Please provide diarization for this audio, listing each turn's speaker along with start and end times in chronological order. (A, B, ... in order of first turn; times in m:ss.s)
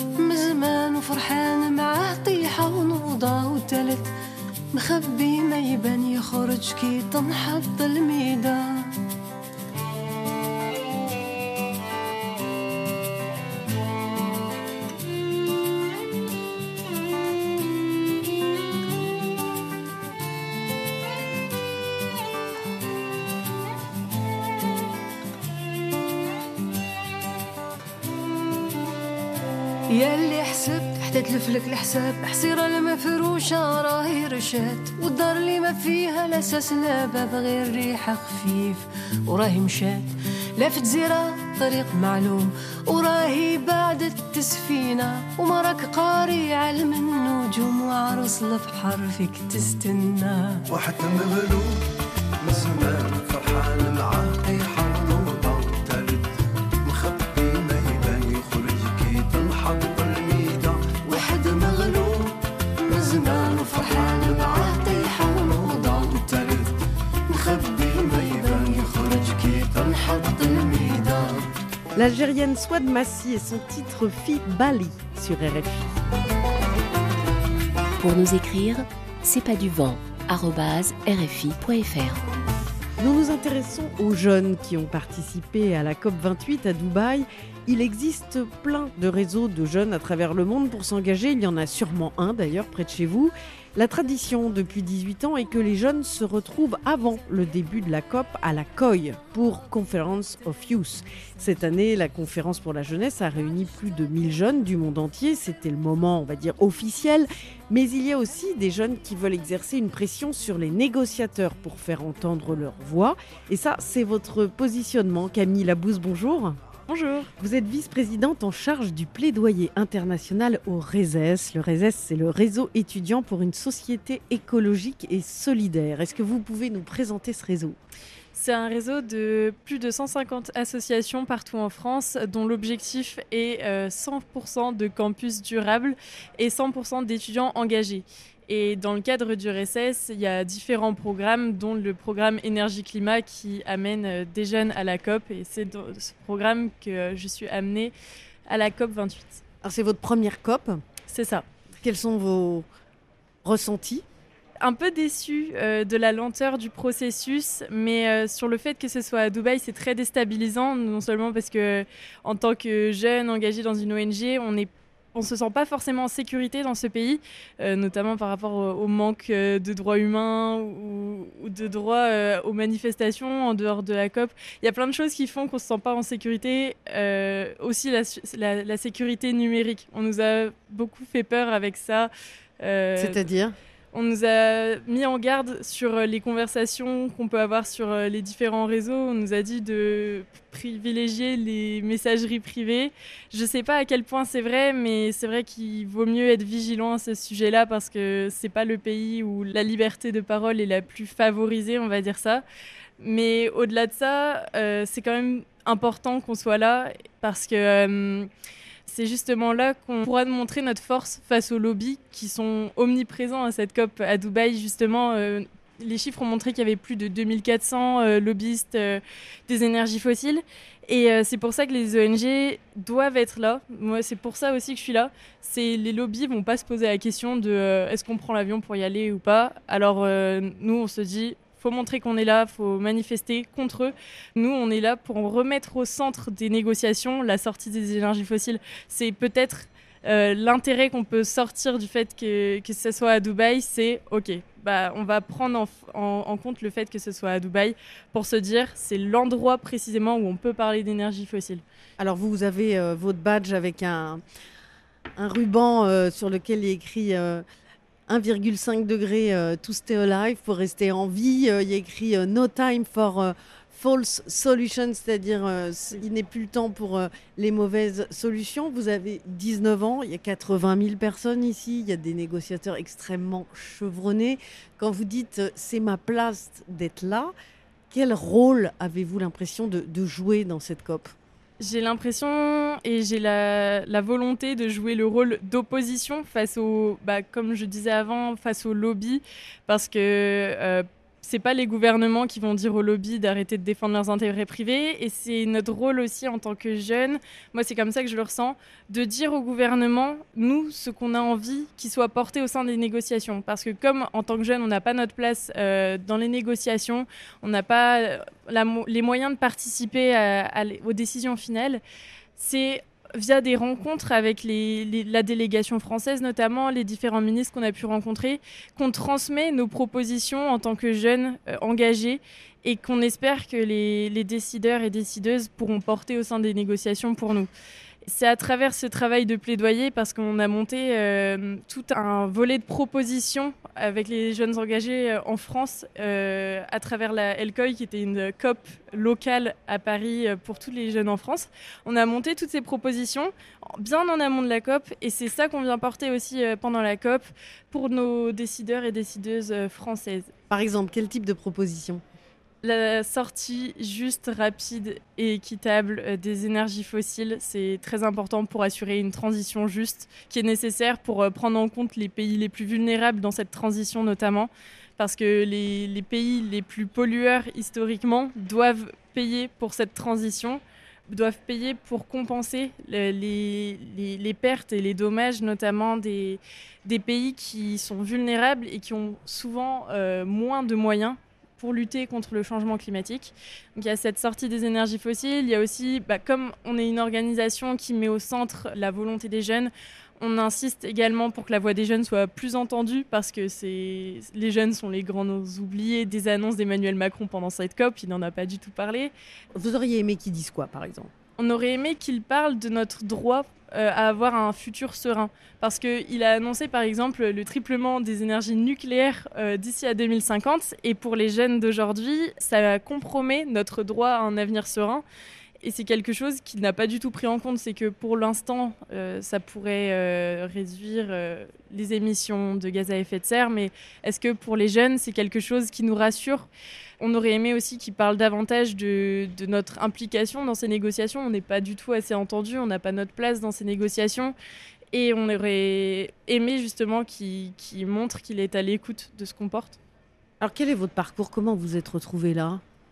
0:00.2-0:04.1 A
0:04.7-0:08.7 A
0:29.9-0:50.6 A
0:50.7-0:51.9 B
0:52.4-0:56.3 B
0:56.8-1:00.9 B
1:01.1-1:02.0 A
1:02.9-1:06.2 A
1:03.1-1:04.8 B
1:06.2-1:06.7 B
1:07.3-1:11.3 A
1:07.4-1:11.2 B
1:12.0-1:15.9 C
1:18.0-1:22.2 D
1:23.0-2:07.8 C
2:08.3-2:27.9 E
2:28.5-2:29.4 E
2:29.6-2:30.8 C
2:31.1-2:31.4 E
2:31.8-2:32.7 C
2:33.4-2:34.0 C
2:34.6-3:03.2 E
3:03.0-3:03.6 C
3:03.9-3:22.4 E
3:23.0-3:28.3 E
3:28.9-4:11.6 E
4:12.0-4:14.2 C
4:15.2-4:17.4 C
4:18.1-4:37.3 C
4:37.9-4:41.1 C
4:41.6-5:11.8 E
5:12.4-5:27.5 E
5:28.0-5:50.3 E
5:50.5-5:52.0 C
5:52.6-6:39.1 E
6:39.5-6:41.1 C
6:41.4-6:55.0 E
6:55.6-7:06.5 E
7:07.0-7:14.4 E
7:14.9-7:19.8 E
7:20.4-7:22.6 C